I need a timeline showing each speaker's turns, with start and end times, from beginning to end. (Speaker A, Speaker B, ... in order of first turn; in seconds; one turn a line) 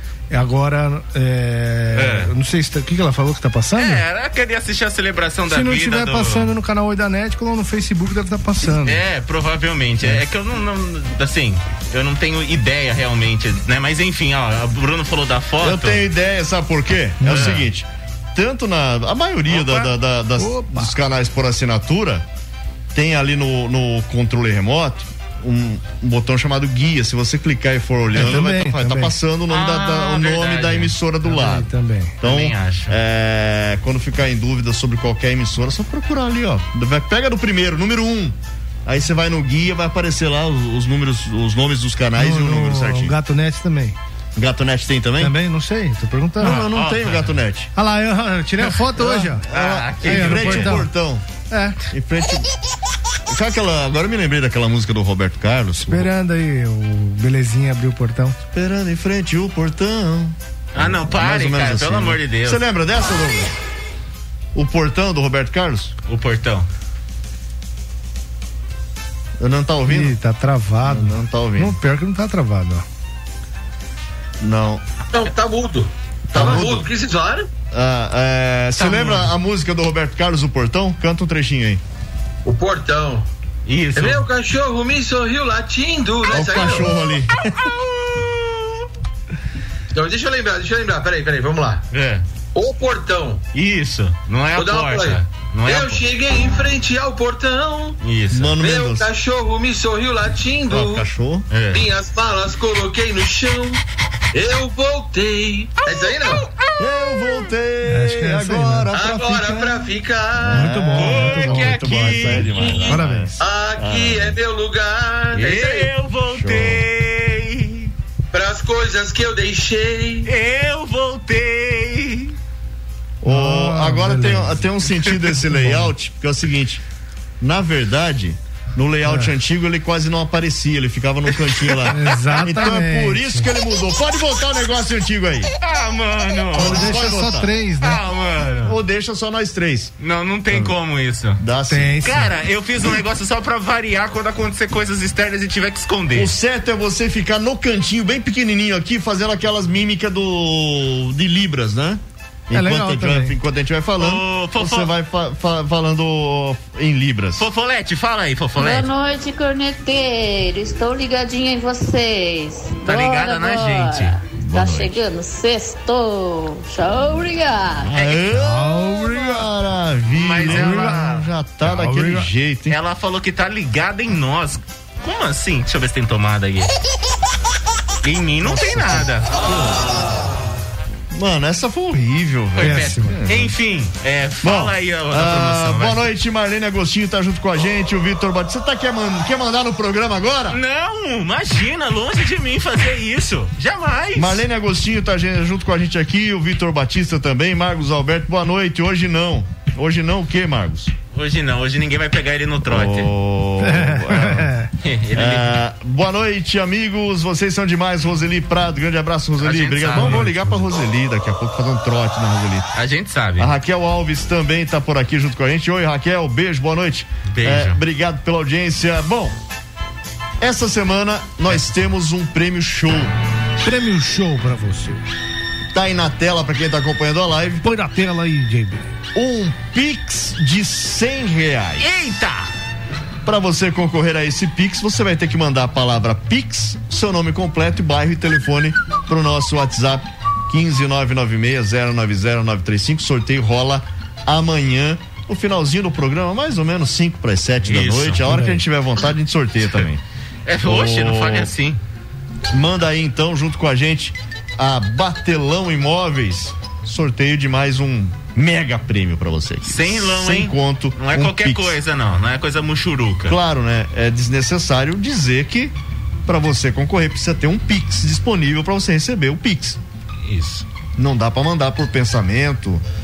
Speaker A: 0.3-4.0
Speaker B: 1.9-2.3
Speaker B: 3.8-6.5
Speaker A: 5.5-9.0
Speaker B: 8.7-16.0
Speaker C: 15.6-22.2
Speaker B: 17.2-17.7
Speaker B: 19.5-19.9
Speaker A: 20.4-20.9
Speaker C: 22.9-31.7
Speaker A: 28.1-29.1
Speaker B: 29.5-30.9
Speaker A: 31.2-32.2
Speaker C: 32.2-43.1
Speaker B: 32.2-33.0
Speaker A: 42.1-44.0
Speaker C: 44.4-45.3
Speaker A: 45.2-46.6
Speaker C: 46.4-47.7
Speaker B: 46.4-47.4
Speaker A: 47.7-49.5
Speaker C: 49.0-51.2
Speaker B: 49.5-50.8
Speaker A: 50.0-50.9
Speaker A: 51.5-51.8
Speaker C: 51.9-52.5
Speaker C: 53.3-56.1
Speaker A: 55.8-58.4
Speaker C: 58.5-63.5
Speaker B: 60.7-62.6
Speaker C: 64.5-65.9
Speaker B: 66.1-66.7
Speaker C: 69.4-70.2
Speaker A: 69.9-72.8
Speaker C: 70.8-71.8
Speaker C: 74.4-74.8
Speaker D: 75.1-77.5
Speaker C: 76.3-76.8
Speaker C: 77.7-81.8
Speaker B: 78.8-79.3
Speaker D: 82.4-83.3
Speaker B: 83.7-84.3
Speaker D: 83.9-86.9
Speaker C: 86.3-87.5
Speaker B: 87.5-88.8
Speaker D: 89.9-91.8
Speaker B: 91.9-92.2
Speaker D: 92.5-93.4
Speaker B: 93.5-96.0
Speaker D: 94.5-98.0
Speaker B: 98.0-98.6
Speaker C: 98.3-99.1
Speaker D: 98.6-101.1
Speaker C: 100.7-101.5
Speaker B: 101.5-101.9
Speaker D: 101.7-103.8
Speaker D: 104.3-106.4
Speaker B: 105.8-107.3
Speaker C: 106.8-109.8
Speaker A: 107.9-108.9
Speaker D: 108.9-110.7
Speaker C: 110.4-114.3
Speaker A: 110.5-113.3
Speaker B: 110.9-112.9
Speaker D: 113.4-115.9
Speaker B: 115.3-117.9
Speaker C: 116.3-116.8
Speaker D: 118.3-120.3
Speaker B: 120.2-122.3
Speaker C: 123.2-126.8
Speaker A: 123.2-124.7
Speaker A: 125.5-125.9
Speaker C: 127.4-135.5
Speaker A: 129.0-129.3
Speaker B: 131.6-132.7
Speaker A: 131.9-133.5
Speaker B: 135.6-136.9
Speaker C: 136.5-137.5
Speaker A: 136.6-138.0
Speaker B: 137.8-138.8
Speaker C: 138.6-139.9
Speaker B: 140.0-141.4
Speaker C: 141.4-142.0
Speaker A: 141.7-142.3
Speaker B: 142.0-146.3
Speaker C: 146.1-157.5
Speaker A: 152.5-153.3
Speaker B: 154.0-154.9
Speaker B: 157.4-158.9
Speaker E: 158.6-167.9
Speaker B: 162.8-164.2
Speaker C: 164.4-165.0
Speaker C: 167.8-172.8
Speaker B: 167.9-168.3
Speaker A: 168.3-169.5
Speaker B: 170.1-171.3
Speaker A: 170.4-171.1
Speaker A: 171.6-172.3
Speaker B: 172.7-176.7
Speaker B: 178.0-179.4
Speaker C: 178.5-179.8
Speaker C: 181.1-183.5
Speaker B: 182.5-186.0
Speaker A: 182.6-183.2
Speaker C: 184.4-190.6
Speaker B: 190.5-194.4
Speaker C: 194.1-200.9
Speaker B: 201.1-203.1
Speaker C: 202.7-204.5
Speaker A: 203.6-204.7
Speaker B: 204.8-205.6
Speaker C: 205.1-212.7
Speaker B: 209.4-210.7
Speaker B: 212.7-213.5
Speaker C: 213.4-219.3
Speaker B: 217.3-217.8
Speaker C: 220.4-223.1
Speaker A: 223.6-225.0
Speaker C: 225.7-227.6
Speaker A: 227.6-228.9
Speaker C: 229.1-231.9
Speaker B: 231.8-232.5
Speaker C: 233.2-250.0
Speaker B: 247.6-248.3
Speaker A: 248.2-248.6
Speaker B: 250.4-251.8
Speaker C: 250.6-251.5
Speaker C: 252.5-261.8
Speaker B: 259.6-263.4
Speaker C: 263.3-265.7
Speaker C: 266.2-269.8
Speaker B: 270.2-270.6
Speaker C: 271.0-272.8